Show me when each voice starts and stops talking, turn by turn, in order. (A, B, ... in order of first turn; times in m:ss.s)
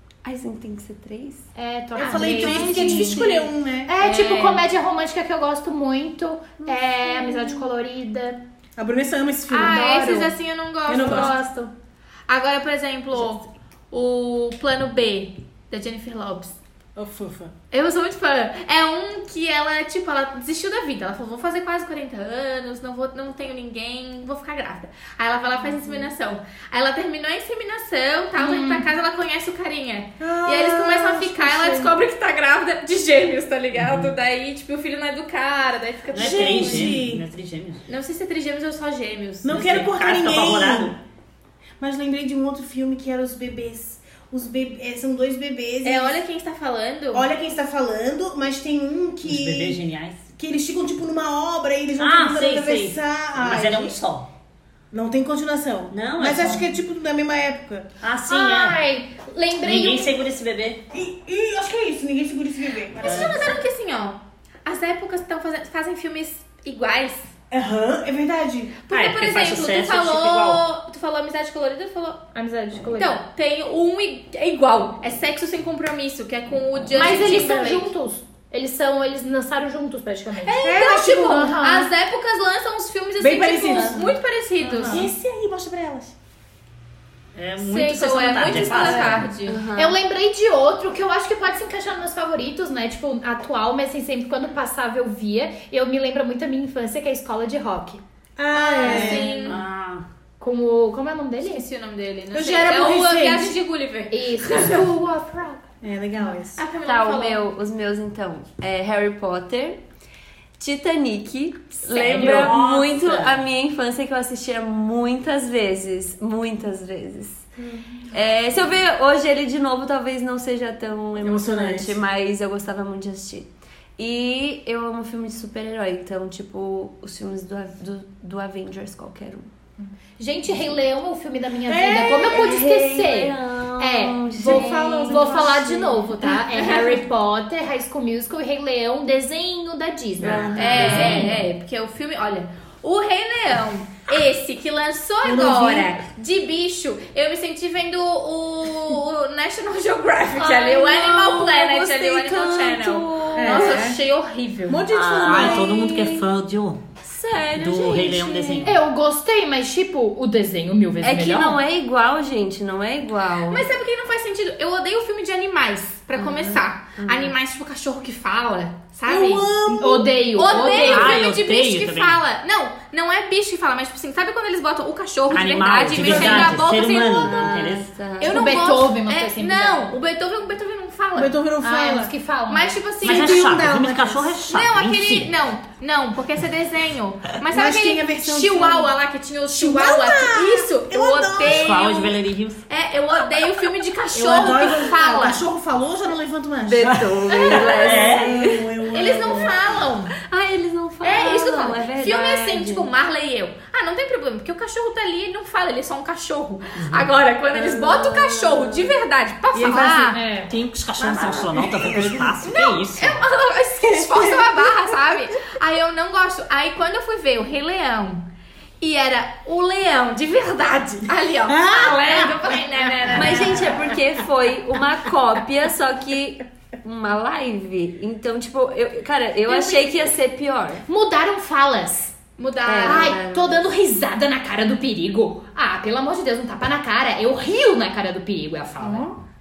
0:00.2-0:01.5 A
0:01.6-0:08.4 B
0:02.0-0:03.5 C
0:02.0-0:03.9 D
0:02.8-0:03.3 A
0:04.0-0:04.6 C
0:07.2-0:07.6 A
0:08.8-0:10.1 D
0:09.5-0:11.4 C
0:09.6-0:10.4 B
0:10.9-0:11.4 D
0:10.9-0:11.7 B
0:12.3-0:16.6 C
0:17.0-0:17.5 D
0:17.7-0:37.0 C
0:28.4-0:28.9 B
0:30.2-0:31.9 D
0:33.8-0:34.1 E
0:36.1-0:37.8 E
0:36.1-0:37.2 D
0:37.9-0:39.8 C
0:39.4-0:40.9 D
0:39.5-0:41.0 E
0:41.8-0:46.2 D
0:45.8-0:47.3 C
0:47.1-0:49.8 D
0:49.2-0:50.3 E
0:50.4-0:54.0 D
0:52.0-0:54.3 E
0:54.9-0:57.9 D
0:55.9-0:56.7 E
0:58.0-0:58.8 E
0:58.3-1:00.1 B
0:59.6-1:00.8 E
1:00.9-1:03.6 D
1:03.0-1:07.3 C
1:03.0-1:03.5 E
1:07.5-1:08.8 D
1:08.9-1:12.2 C
1:08.9-1:10.6 E
1:12.3-1:13.2 B
1:13.0-1:17.9 C
1:16.9-1:21.9 B
1:20.4-1:25.1 C
1:20.6-1:21.6 D
1:23.2-1:26.1 D
1:27.4-1:29.3 E
1:27.6-1:29.6 C
1:28.9-1:38.0 B
1:29.5-1:30.0 A
1:38.4-1:39.6 D
1:38.5-1:39.6 C
1:38.9-1:39.3 B
1:39.0-1:40.1 E
1:40.4-1:41.7 B
1:41.4-1:44.8 C
1:42.3-1:43.6 D
1:44.1-1:45.7 B
1:45.8-1:46.6 D
1:46.6-1:47.4 C
1:46.8-1:49.8 A
1:50.6-1:57.5 A
1:51.9-1:52.6 C
1:52.0-1:53.4 E
1:57.6-1:58.0 D
1:58.1-2:09.5 A
2:01.2-2:02.0 D
2:09.8-2:21.4 B
2:11.7-2:12.5 D
2:12.2-2:15.9 A
2:14.3-2:15.9 D
2:16.6-2:17.0 C
2:20.2-2:21.4 A
2:20.3-2:21.2 D
2:20.6-2:34.8 C
2:25.2-2:26.1 D
2:30.4-2:33.9 A
2:33.4-2:34.0 D
2:34.7-2:35.8 D
2:34.9-2:36.9 E
2:35.2-2:36.3 A
2:37.0-2:38.7 A
2:37.6-2:38.8 E
2:38.6-2:41.6 B
2:41.0-2:43.7 A
2:43.5-2:49.5 C
2:46.2-2:47.3 A
2:49.1-2:50.1 D
2:49.7-2:51.2 B
2:50.4-3:01.3 C
2:50.8-2:52.2 E
2:55.3-2:57.9 E
2:56.0-2:56.6 D
2:56.2-2:58.5 A
2:58.2-3:00.0 B
3:01.2-3:02.1 D
3:01.6-3:02.8 B
3:02.5-3:03.5 C
3:03.0-3:05.3 E
3:03.0-3:04.4 D
3:04.5-3:15.4 C
3:07.5-3:08.9 D
3:09.5-3:11.9 D
3:11.4-3:12.7 E
3:14.1-3:19.8 D
3:16.6-3:18.7 A
3:16.8-3:18.5 E
3:18.9-3:20.2 C
3:20.2-3:22.9 A
3:21.0-3:30.3 C
3:26.8-3:27.1 E
3:27.5-3:28.9 A
3:29.5-3:30.1 D
3:29.7-3:30.5 B
3:30.5-3:33.2 E
3:31.0-3:32.5 D
3:32.5-3:38.2 C
3:33.8-3:35.0 D
3:38.8-3:43.8 C
3:41.5-3:44.0 D
3:43.1-3:50.8 A
3:49.5-3:50.0 B
3:50.9-3:52.2 B
3:52.4-3:53.2 C
3:52.6-3:53.6 A
3:52.8-3:59.1 B
3:58.8-3:59.1 D